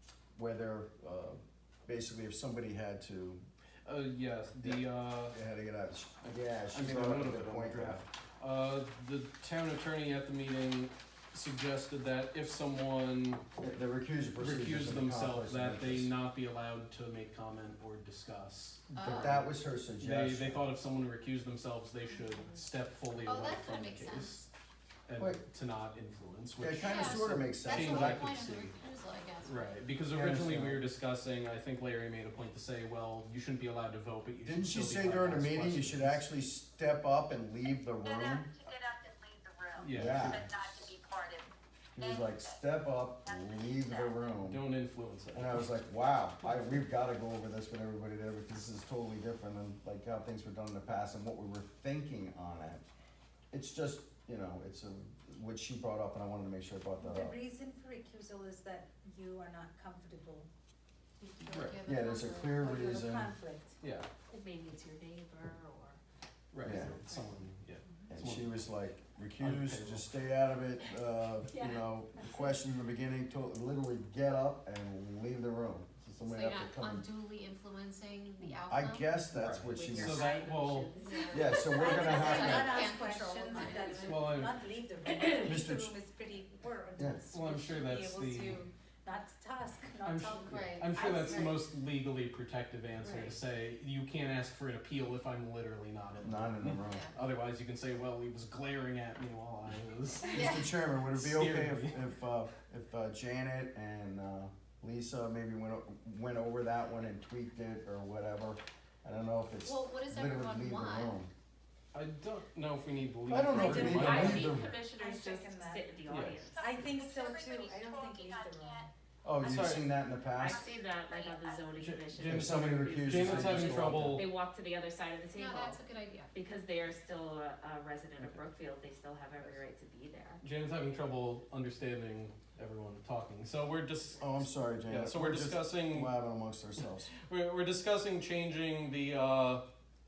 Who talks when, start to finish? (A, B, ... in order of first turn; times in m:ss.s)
0:00.4-0:03.4 A
0:03.8-0:05.4 B
0:04.6-0:08.0 A
0:06.2-0:13.4 B
0:13.6-0:16.1 A
0:14.4-0:19.4 B
0:19.0-0:19.4 C
0:19.0-0:20.7 A
0:20.0-0:24.5 B
0:23.2-0:24.4 C
0:25.1-0:28.8 B
0:26.6-0:28.4 A
0:26.8-0:29.8 C
0:29.4-0:36.2 B
0:30.1-0:30.8 A
0:34.5-0:38.6 A
0:38.0-0:42.6 D
0:39.8-0:40.9 B
0:39.9-0:40.4 A
0:42.0-0:44.6 A
0:43.2-0:44.3 D
0:44.4-0:45.7 B
0:45.3-0:52.8 A
0:53.5-0:57.4 A
0:57.0-1:00.5 E
1:01.2-1:03.0 C
1:01.5-1:01.8 B
1:01.8-1:03.4 A
1:02.7-1:03.8 E
1:03.8-1:04.1 B
1:04.3-1:06.0 F
1:06.5-1:08.7 B
1:06.6-1:07.0 A
1:06.6-1:07.4 F
1:08.1-1:17.1 A
1:09.4-1:10.1 B
1:11.5-1:12.5 F
1:16.3-1:19.1 C
1:18.7-1:20.4 A
1:19.3-1:20.9 B
1:19.6-1:22.5 F
1:21.0-1:24.4 C
1:21.3-1:22.9 A
1:21.8-1:30.6 E
1:23.9-1:24.6 B
1:25.1-1:25.7 F
1:25.4-1:25.9 A
1:27.3-1:28.7 B
1:30.0-1:40.5 B
1:30.3-1:31.6 C
1:33.0-1:33.3 C
1:36.2-1:37.1 A
1:36.8-1:37.1 C
1:40.3-1:40.7 C
1:40.3-1:51.3 A
1:41.1-1:42.0 B
1:49.6-1:51.2 C
1:51.9-1:54.6 B
1:53.3-1:54.7 A
1:53.6-1:56.6 F
1:55.0-1:55.8 E
1:56.1-1:56.5 B
1:56.5-1:58.9 D
1:56.6-1:58.9 E
1:59.2-2:00.8 A
1:59.4-1:59.9 B
2:00.4-2:05.8 F
2:00.5-2:01.6 D
2:01.8-2:04.3 B
2:02.2-2:04.2 A
2:05.3-2:06.3 C
2:06.3-2:10.4 F
2:10.4-2:16.2 B
2:14.2-2:17.1 A
2:17.1-2:19.6 B